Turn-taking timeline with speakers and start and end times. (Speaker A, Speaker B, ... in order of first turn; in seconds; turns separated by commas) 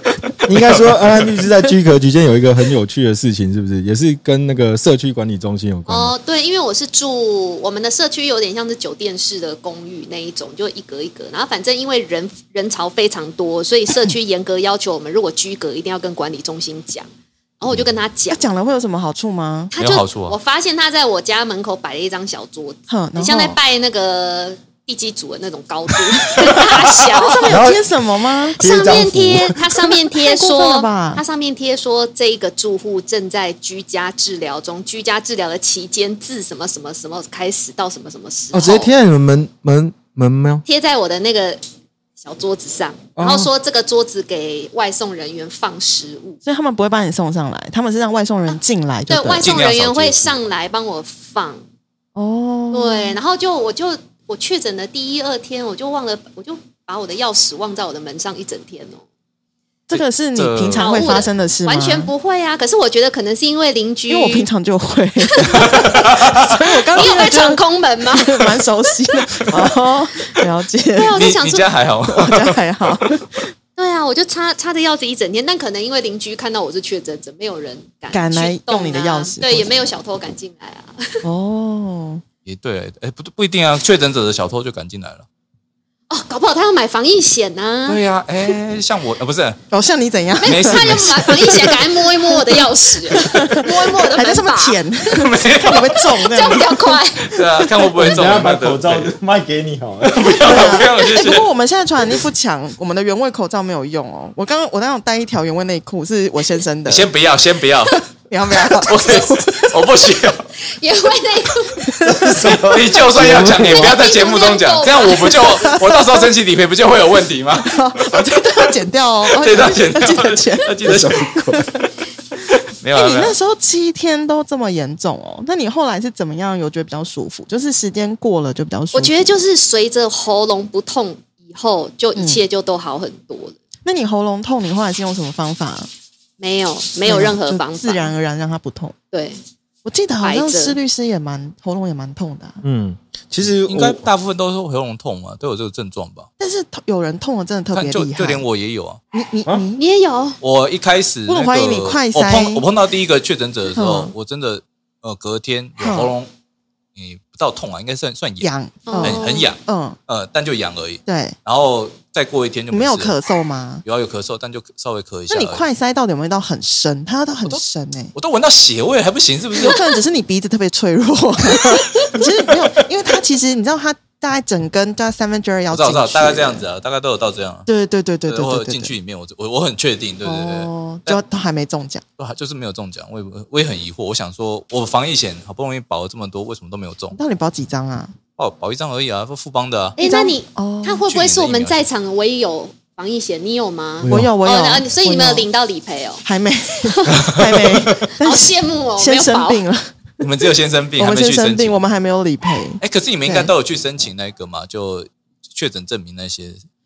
Speaker A: 0.5-6.1, Speaker B: 0.5-1.3, Speaker C: 5.9-18.4, Speaker D: 18.3-19.7, Speaker C: 19.7-27.6, Speaker B: 19.8-20.3, Speaker D: 22.9-23.6, Speaker D: 27.1-28.6, Speaker A: 27.5-28.0, Speaker C: 28.5-39.0, Speaker A: 28.6-29.9, Speaker D: 30.1-31.2, Speaker A: 38.5-40.6, Speaker C: 40.6-41.6, Speaker C: 42.2-46.4, Speaker A: 43.1-43.5, Speaker D: 46.4-49.5, Speaker C: 49.1-51.6, Speaker B: 49.4-50.4, Speaker D: 52.1-53.2, Speaker C: 52.7-59.0, Speaker D: 59.9-62.1, Speaker B: 59.9-61.2, Speaker C: 60.7-64.5, Speaker D: 64.1-71.2, Speaker C: 65.2-66.1, Speaker B: 65.6-66.4, Speaker C: 66.9-68.5, Speaker C: 70.9-71.7, Speaker B: 71.1-73.1, Speaker D: 72.0-73.5, Speaker C: 73.8-81.2, Speaker D: 78.1-79.7, Speaker D: 81.2-82.2, Speaker B: 82.4-85.2, Speaker C: 86.1-88.0, Speaker B: 87.8-89.6, Speaker D: 89.7-91.7, Speaker C: 90.4-94.8, Speaker B: 90.4-91.8, Speaker D: 92.2-97.6, Speaker B: 95.1-96.0, Speaker C: 96.0-97.3, Speaker B: 97.3-99.1, Speaker A: 98.0-100.7, Speaker B: 100.0-101.5, Speaker D: 100.4-107.1, Speaker B: 106.8-110.5, Speaker D: 107.9-109.8, Speaker C: 110.6-111.8, Speaker D: 111.8-112.5, Speaker A: 112.0-114.0, Speaker B: 112.3-118.7, Speaker C: 113.6-115.8, Speaker D: 115.6-116.2, Speaker D: 117.6-121.8, Speaker B: 119.3-121.6, Speaker A: 120.8-121.7, Speaker B: 122.8-123.3, Speaker D: 122.9-129.4, Speaker C: 128.9-133.6, Speaker D: 132.2-132.4, Speaker D: 133.8-135.9, Speaker C: 136.4-138.1, Speaker D: 137.1-138.9, Speaker C: 139.1-139.4, Speaker D: 139.8-142.6, Speaker C: 140.2-140.8, Speaker A: 142.6-144.1, Speaker B: 143.4-146.3, Speaker D: 146.4-148.4, Speaker B: 147.7-149.0, Speaker D: 149.1-149.8, Speaker C: 149.8-150.4, Speaker B: 150.4-156.3, Speaker D: 151.3-152.6, Speaker D: 153.7-154.1, Speaker D: 155.8-156.1, Speaker B: 156.9-158.5, Speaker D: 158.4-160.0, Speaker C: 158.9-159.5, Speaker B: 159.0-163.1, Speaker D: 161.1-161.3, Speaker D: 162.7-163.8, Speaker B: 163.8-165.6, Speaker D: 165.3-168.1, Speaker B: 168.1-169.8, Speaker D: 169.6-176.6, Speaker B: 175.7-177.7, Speaker D: 177.7-178.9, Speaker B: 178.3-181.2, Speaker D: 180.2-182.0, Speaker B: 182.2-187.2, Speaker D: 187.1-188.1, Speaker B: 188.4-190.0, Speaker C: 190.0-196.2, Speaker D: 190.0-191.0, Speaker B: 191.0-191.8, Speaker A: 194.1-194.3, Speaker D: 194.1-195.5, Speaker D: 196.2-200.1, Speaker C: 196.8-197.2, Speaker B: 197.2-197.9, Speaker C: 198.2-199.6, Speaker B: 200.2-201.8, Speaker D: 201.0-203.5, Speaker B: 202.8-206.6